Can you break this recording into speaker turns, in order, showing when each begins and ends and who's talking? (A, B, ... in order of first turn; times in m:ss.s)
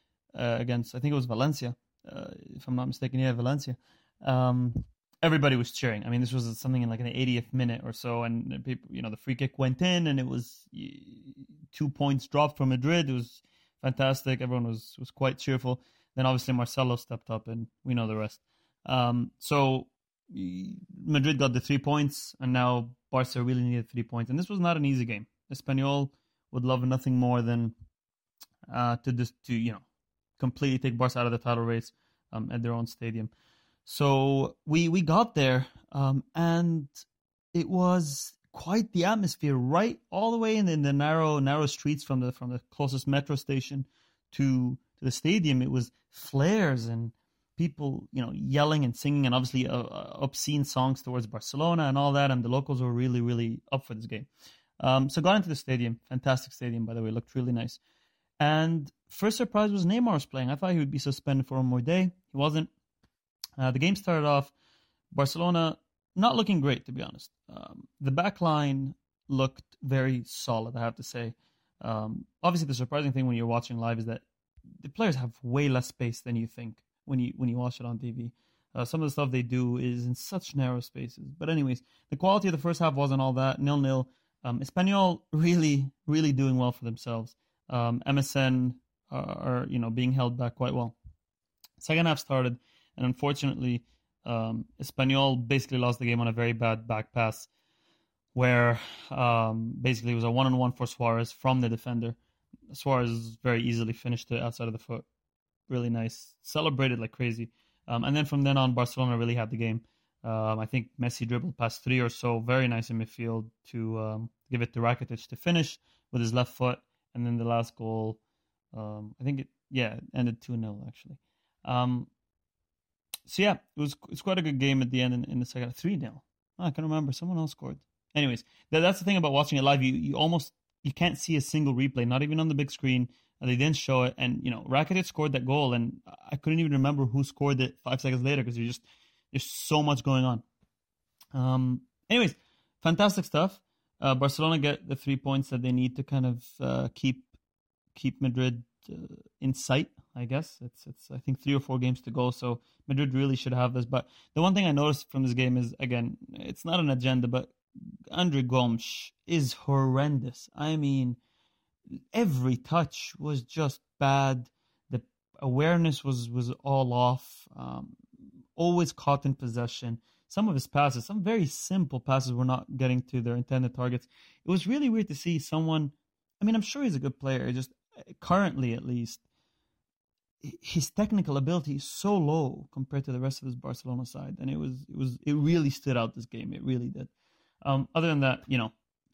0:00.3-0:27.7 A
0:28.7-0:29.8 A
0:30.4-0:33.3 A
0:33.8-0:36.9 A
0:37.5-0:54.3 A
0:54.8-0:57.8 A
0:58.4-1:02.7 A
1:03.6-1:04.5 A
1:05.1-1:14.2 A
1:14.8-1:30.9 A
1:31.8-1:37.5 A
1:38.3-1:42.2 A
1:42.7-1:45.0 A
1:45.7-1:58.2 A
1:58.7-2:02.1 A
2:03.3-2:20.4 A
2:21.3-2:27.3 A
2:27.9-2:37.5 A
2:38.1-2:41.2 A
2:42.1-2:48.0 A
2:48.6-2:59.2 A
3:00.4-3:07.1 A
3:07.6-3:08.7 A